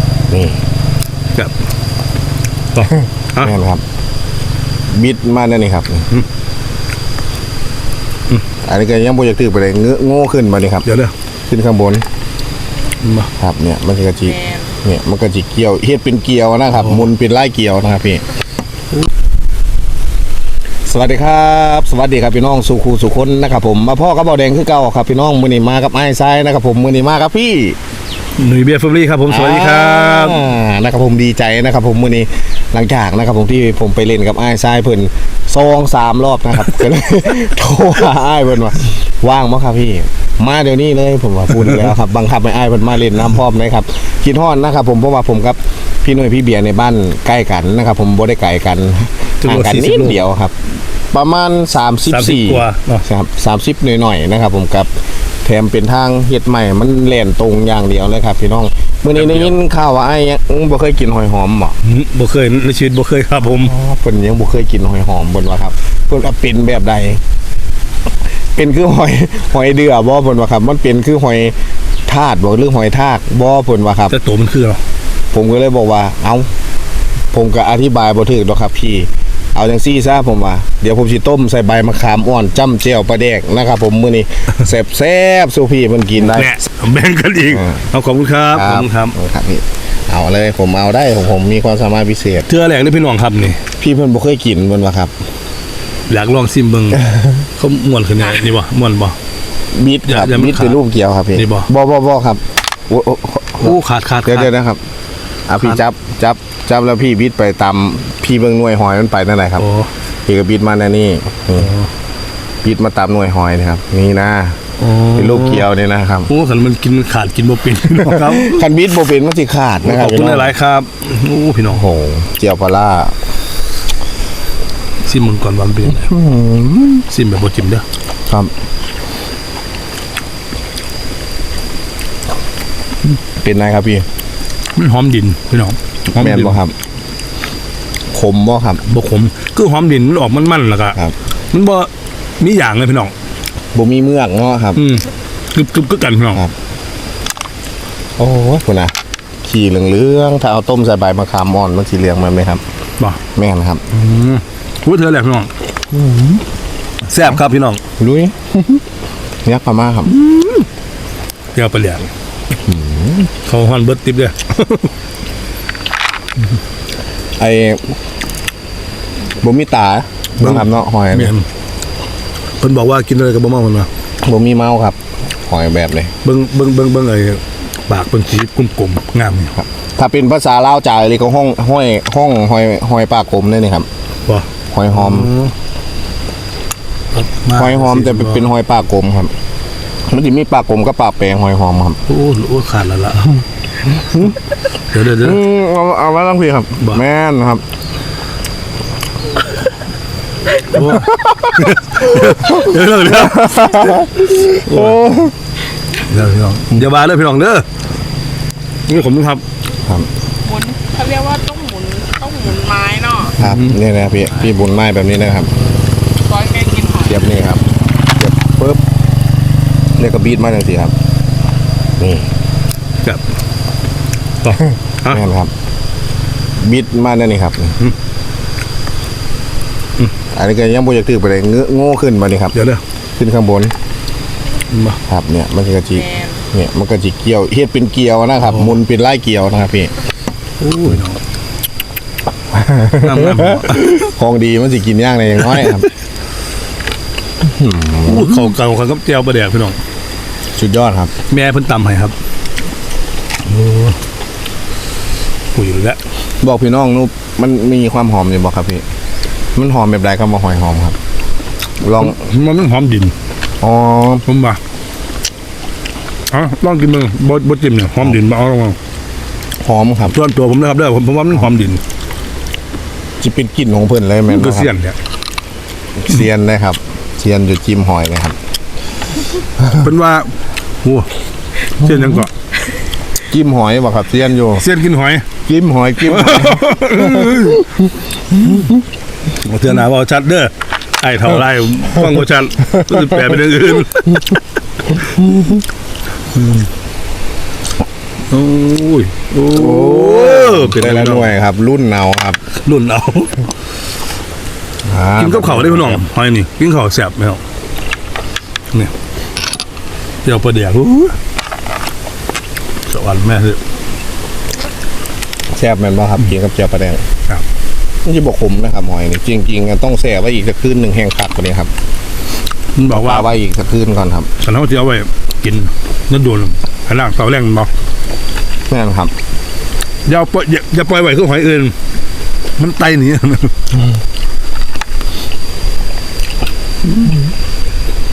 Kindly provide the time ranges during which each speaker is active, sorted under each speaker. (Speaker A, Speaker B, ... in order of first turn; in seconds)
Speaker A: 0.3-0.6, 3.4-3.8, 4.9-6.1, 8.6-10.8, 11.5-12.0, 13.4-18.2, 20.9-27.8, 29.3-50.6, 51.1-54.9, 55.4-61.8, 63.5-67.2, 68.3-71.5, 72.1-74.2, 75.3-76.5, 77.3-86.6, 87.5-87.9, 88.5-92.5, 93.8-95.1, 99.7-104.8, 105.5-109.6, 110.3-111.7, 112.6-116.3, 118.0-120.5, 121.7-123.2, 126.0-127.0, 133.3-134.1, 136.1-136.7, 138.1-138.8, 143.7-144.8, 148.2-152.6, 153.3-153.8, 155.9-156.4, 158.0-158.8, 159.4-160.2, 162.6-163.3, 167.4-167.9, 169.4-171.3, 174.2-176.1, 179.6-183.9, 184.7-185.3, 187.5-189.3, 190.1-192.0, 195.2-197.6, 200.8-205.3, 213.4-215.5, 217.0-218.8, 220.0-220.9, 222.0-222.3, 225.1-225.5, 226.6-227.8, 230.3-232.5, 233.2-233.7, 235.1-239.9, 242.5-245.9, 247.4-248.5, 250.6-251.1, 256.4-258.8, 259.5-261.0, 261.8-262.2, 263.6-264.2, 269.6-270.1, 273.2-274.7, 275.9-278.4, 283.3-284.6, 285.4-286.7, 299.5-302.4, 304.9-306.0, 315.5-317.1, 318.0-321.7, 322.9-324.3, 328.7-329.1
Speaker B: 2.7-3.5, 10.8-11.1, 13.0-13.3, 28.4-30.4, 49.4-50.2, 52.1-53.0, 59.1-59.5, 61.8-63.7, 74.1-74.8, 86.2-89.1, 92.5-93.6, 96.1-99.2, 100.1-100.8, 101.3-101.7, 103.6-104.5, 109.6-109.9, 111.6-111.9, 114.8-115.7, 116.3-118.7, 119.8-121.8, 125.0-126.1, 127.1-127.8, 134.7-136.6, 138.8-141.0, 141.5-143.1, 144.7-146.4, 153.9-155.5, 157.0-157.8, 160.1-160.7, 161.5-162.1, 163.4-164.9, 170.4-171.5, 172.6-173.9, 176.2-179.6, 184.3-185.5, 187.1-188.5, 192.1-193.4, 194.9-195.4, 200.6-205.2, 206.0-207.7, 208.9-209.4, 213.4-213.7, 224.4-225.2, 232.5-232.8, 234.7-235.0, 238.4-238.8, 240.6-241.2, 243.0-244.0, 248.0-249.8, 251.3-252.1, 253.4-254.0, 255.5-256.0, 262.0-263.1, 264.2-264.6, 266.3-268.8, 270.1-271.8, 274.3-275.0, 279.7-280.3, 280.8-281.1, 281.7-282.3, 284.6-285.3, 286.0-287.7, 289.4-294.4, 296.3-296.6, 298.3-301.4, 302.6-303.4, 305.2-307.4, 310.2-311.2, 312.9-313.6, 322.7-323.3, 324.4-327.7, 330.1-331.8, 332.6-333.6
Speaker C: 210.4-213.4, 216.2-217.1